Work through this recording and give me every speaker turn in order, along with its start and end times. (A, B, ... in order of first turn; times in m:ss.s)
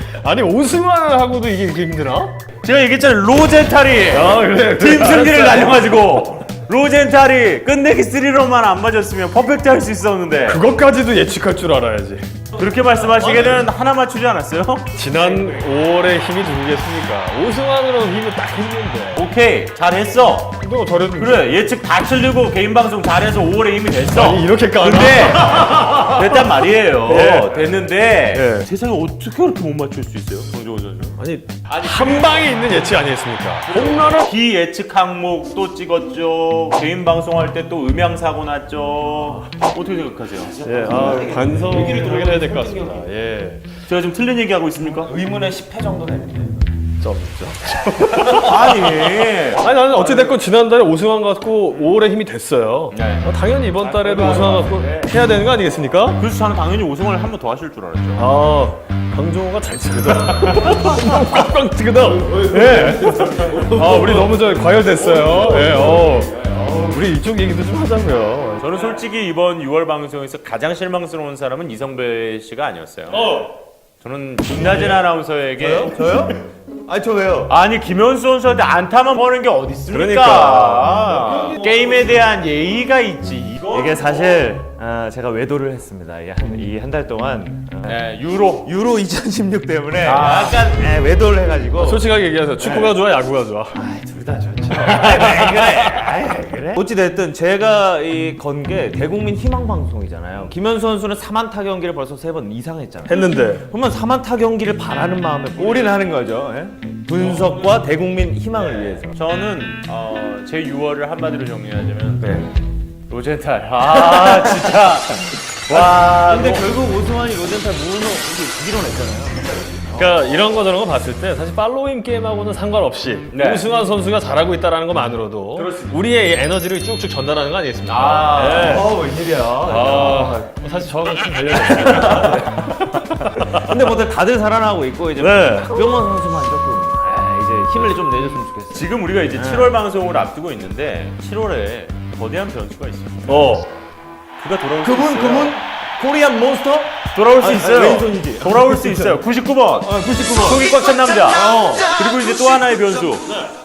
0:00.2-0:02.4 A
0:02.6-0:10.6 B
0:04.1-0:05.9 A
0:10.4-0:12.3 A
0:12.6-0:15.0 B
0:13.3-0:13.6 A
0:14.9-0:19.2 A
0:19.2-0:32.5 B
0:20.6-0:21.6 A
0:24.1-0:26.3 A
0:27.0-0:28.7 A
0:31.2-0:34.3 A
0:33.7-0:41.3 B
0:39.2-0:39.5 A
0:40.6-0:43.7 A
0:40.8-0:43.0 C
0:43.9-0:45.1 B
0:44.8-0:46.6 C
0:47.0-0:56.2 A
0:48.3-0:50.3 B
0:52.9-0:53.2 B
0:53.8-0:55.1 C
0:56.2-0:58.3 B
0:58.2-1:08.7 A
1:02.7-1:03.8 C
1:06.5-1:07.0 C
1:08.6-1:16.2 B
1:14.6-1:15.0 C
1:15.6-1:17.5 C
1:17.5-1:24.5 B
1:19.9-1:21.0 A
1:21.3-1:21.6 C
1:23.7-1:28.0 C
1:27.9-1:28.7 B
1:28.6-1:32.0 C
1:30.0-1:30.9 B
1:31.8-1:33.8 A
1:33.7-1:49.2 C
1:34.9-1:35.6 A
1:43.1-1:43.7 A
1:47.2-1:47.7 B
1:48.8-1:52.4 B
1:52.2-1:52.5 A
1:53.1-1:56.7 B
1:53.9-1:54.8 C
1:55.7-2:00.2 C
1:59.9-2:08.9 A
2:03.3-2:03.6 B
2:05.6-2:06.0 B
2:07.9-2:08.8 B
2:08.3-2:10.4 C
2:09.6-2:12.7 A
2:11.7-2:19.7 C
2:13.4-2:13.7 A
2:15.2-2:15.7 A
2:18.7-2:23.6 B
2:23.3-2:23.7 A
2:24.4-2:25.6 B
2:24.8-2:29.2 C
2:27.1-2:33.4 B
2:29.8-2:30.6 A
2:29.8-2:30.6 C
2:31.3-2:31.9 C